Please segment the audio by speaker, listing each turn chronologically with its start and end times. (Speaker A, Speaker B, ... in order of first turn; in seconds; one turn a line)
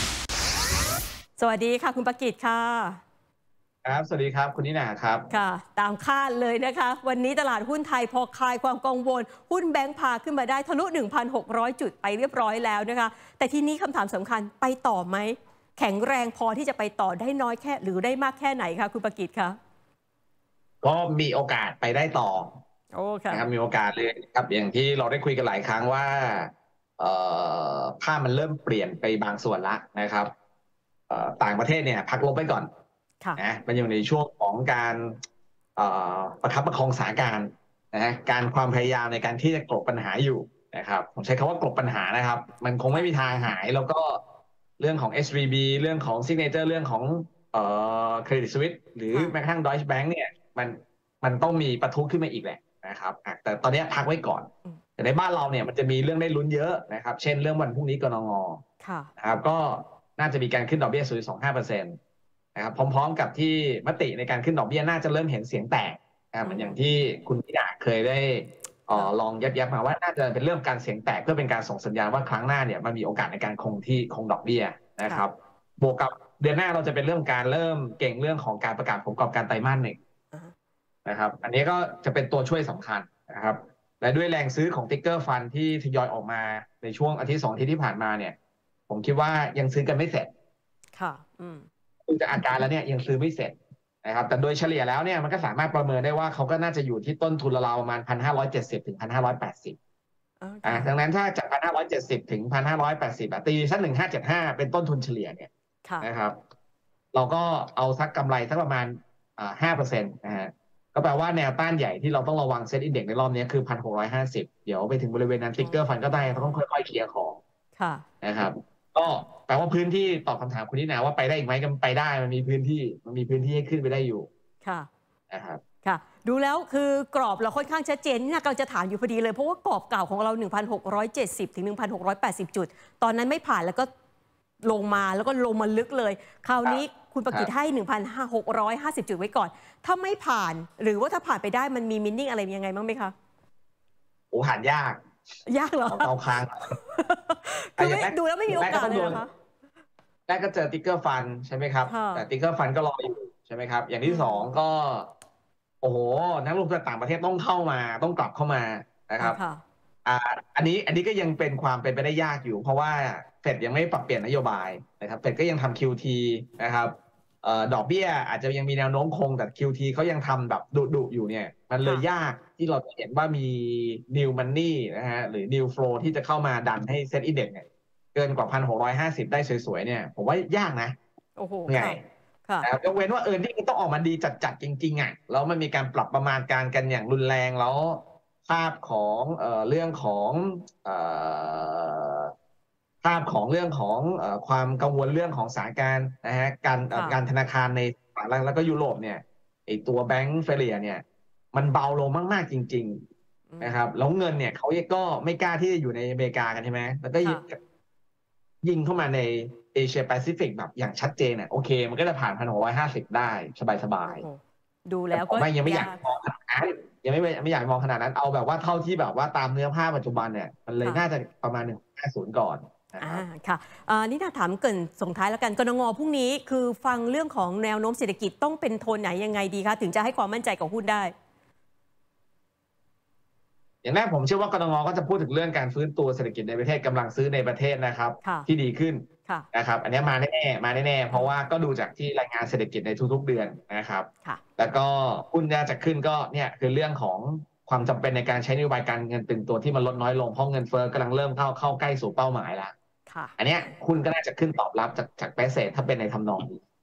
Speaker A: 1.4-3.0
Speaker B: 3.9-5.3
Speaker A: 5.3-19.6
Speaker B: 20.8-22.6
Speaker A: 22.9-23.4
Speaker B: 23.3-30.3
Speaker B: 31.1-32.7
Speaker B: 33.4-35.2
Speaker B: 35.8-44.2
Speaker A: 42.9-43.5
Speaker B: 44.8-58.6
Speaker A: 58.8-59.1
Speaker B: 59.2-62.0
Speaker B: 62.5-80.0
Speaker A: 66.5-66.8
Speaker B: 81.1-88.4
Speaker B: 88.9-90.3
Speaker A: 91.0-91.7
Speaker B: 92.1-99.8
Speaker A: 100.4-100.9
Speaker B: 100.6-105.5
Speaker B: 106.0-106.4
Speaker B: 107.1-117.4
Speaker A: 115.6-116.6
Speaker A: 117.8-118.0
Speaker B: 118.2-124.3
Speaker B: 125.3-125.6
Speaker A: 125.8-133.9
Speaker A: 134.7-143.1
Speaker B: 136.6-137.5
Speaker B: 144.3-145.0
Speaker A: 145.5-146.1
Speaker B: 145.9-146.8
Speaker A: 146.7-149.3
Speaker B: 147.8-149.2
Speaker B: 150.3-155.1
Speaker A: 151.9-152.3
Speaker A: 154.1-154.5
Speaker B: 155.8-159.4
Speaker A: 159.2-159.6
Speaker B: 160.1-181.0
Speaker A: 181.4-182.7
Speaker B: 181.7-182.0
Speaker B: 182.6-192.3
Speaker B: 193.0-203.0
Speaker A: 196.9-197.2
Speaker B: 203.6-207.6
Speaker B: 208.6-214.2
Speaker A: 214.1-216.0
Speaker B: 215.1-223.2
Speaker A: 223.0-231.1
Speaker B: 233.8-252.7
Speaker A: 238.2-238.5
Speaker A: 253.1-253.7
Speaker B: 253.4-256.6